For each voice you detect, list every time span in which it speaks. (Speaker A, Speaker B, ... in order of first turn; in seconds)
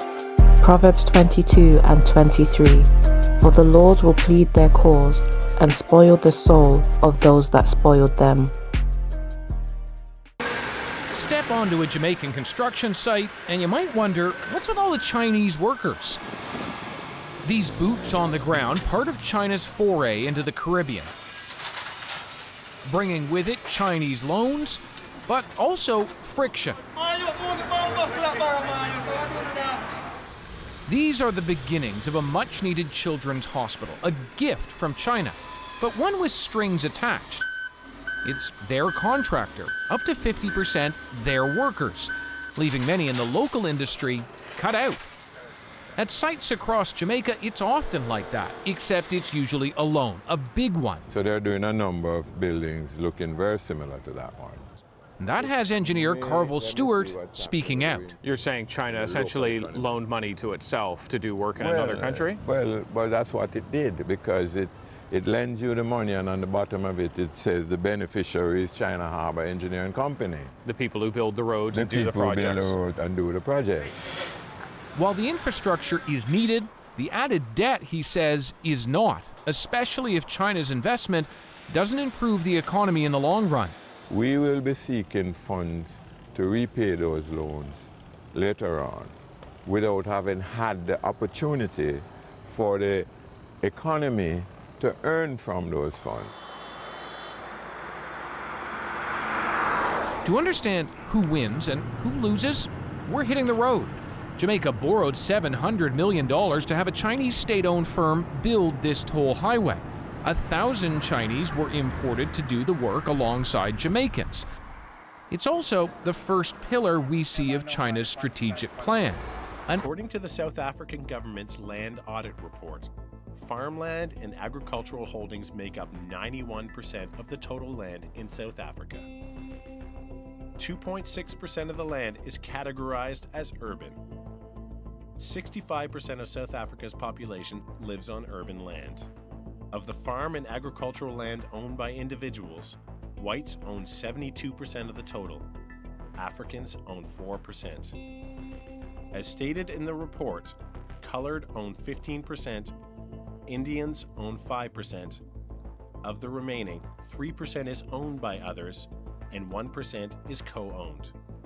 Speaker A: 0.6-8.5
Speaker B: 11.1-16.2, 17.4-21.1, 22.9-26.8, 30.9-37.5, 38.2-45.0, 46.0-51.0, 55.2-58.1, 74.9-83.8, 100.2-114.5, 115.3-119.8
Speaker C: 51.1-54.7, 55.3-58.3, 58.9-60.0, 61.5-70.6, 71.7-74.0, 84.1-93.1, 93.6-96.3
Speaker D: 58.3-62.4, 70.7-72.7
Speaker E: 119.7-129.1, 130.6-134.0, 135.2-139.1, 139.7-145.5, 146.2-148.0, 149.1-152.7, 153.5-155.2, 156.0-161.1